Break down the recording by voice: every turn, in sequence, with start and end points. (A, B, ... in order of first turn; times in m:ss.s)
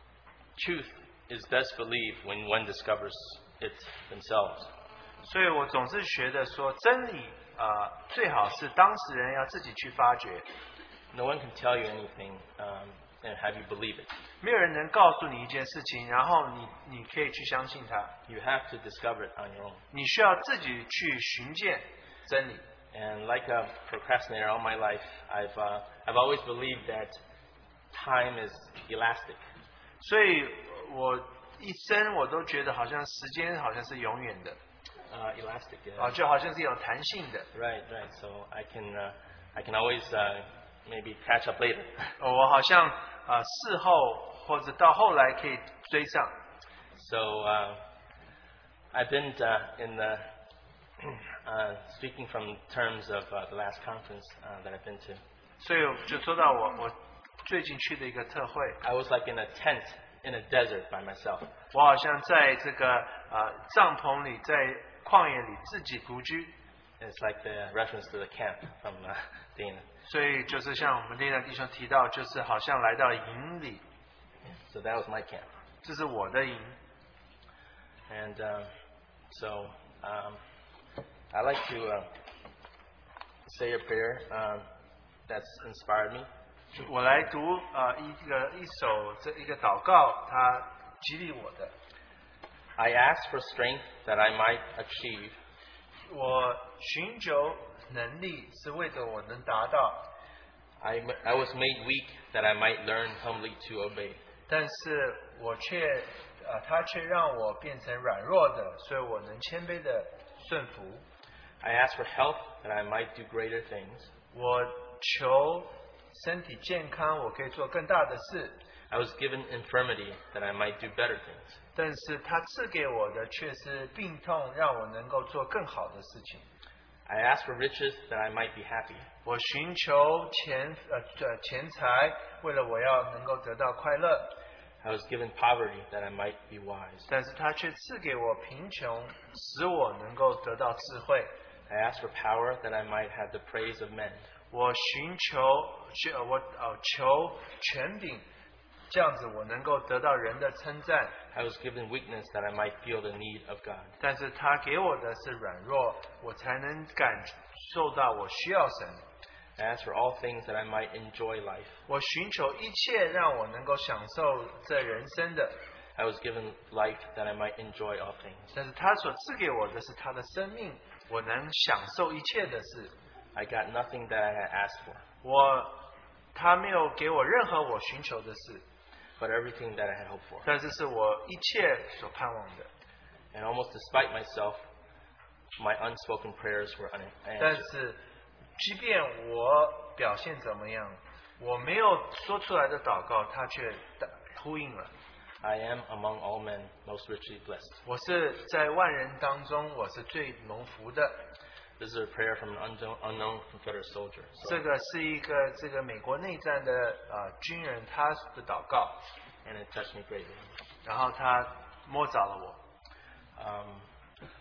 0:00.6-0:04.7 A
0:05.2-0:10.5 B
0:11.1-0:14.1 A
0:14.4-0:18.1 B
0:18.3-0:19.8 A
0:19.9-0:22.6 B
0:22.9-0:27.2 A
0:27.9-0:29.4 A
0:30.0-0:34.6 B
0:35.1-0:36.2 A
0:36.0-0:37.5 B
0:37.5-0:42.2 A
0:42.2-0:46.3 B
0:47.0-0:47.8 A
0:48.9-0:50.3 A
0:51.0-0:55.2 A
0:55.6-0:58.8 B
0:58.8-1:01.5 A
1:01.7-1:06.5 B
1:07.0-1:09.9 A
1:10.1-1:13.8 B
1:14.4-1:15.5 A
1:15.8-1:16.8 B
1:18.1-1:18.7 A
1:19.3-1:20.4 A
1:21.3-1:22.1 A
1:23.4-1:24.7 A
1:25.3-1:26.3 A
1:26.8-1:31.7 B
1:32.8-1:35.4 A
1:36.1-1:40.1 B
1:40.8-1:44.2 A
1:44.5-1:51.0 B
1:51.6-1:54.1 A
1:54.3-1:58.6 B
1:58.9-2:01.6 A
2:01.8-2:06.4 B
2:07.1-2:09.1 A
2:09.2-2:14.3 B
2:14.8-2:17.1 A
2:17.1-2:21.3 B
2:21.7-2:24.3 A
2:24.5-2:28.2 B
2:28.9-2:31.2 B
2:31.3-2:34.0 A
2:34.0-2:39.0 B
2:39.6-2:41.8 A
2:41.9-2:45.6 B
2:46.0-2:48.5 A
2:48.5-2:52.9 B
2:53.3-2:55.0 A
2:55.2-2:55.8 B
2:56.4-2:58.6 B
2:59.2-3:00.5 A
3:00.4-3:02.7 B
3:03.3-3:04.6 A
3:05.6-3:07.7 A
3:07.4-3:08.0 B
3:08.6-3:14.9 B
3:15.4-3:17.8 A
3:17.8-3:21.2 B
3:21.8-3:24.6 A
3:24.4-3:29.0 B
3:29.4-3:30.5 A
3:30.8-3:32.6 B
3:33.4-3:33.9 A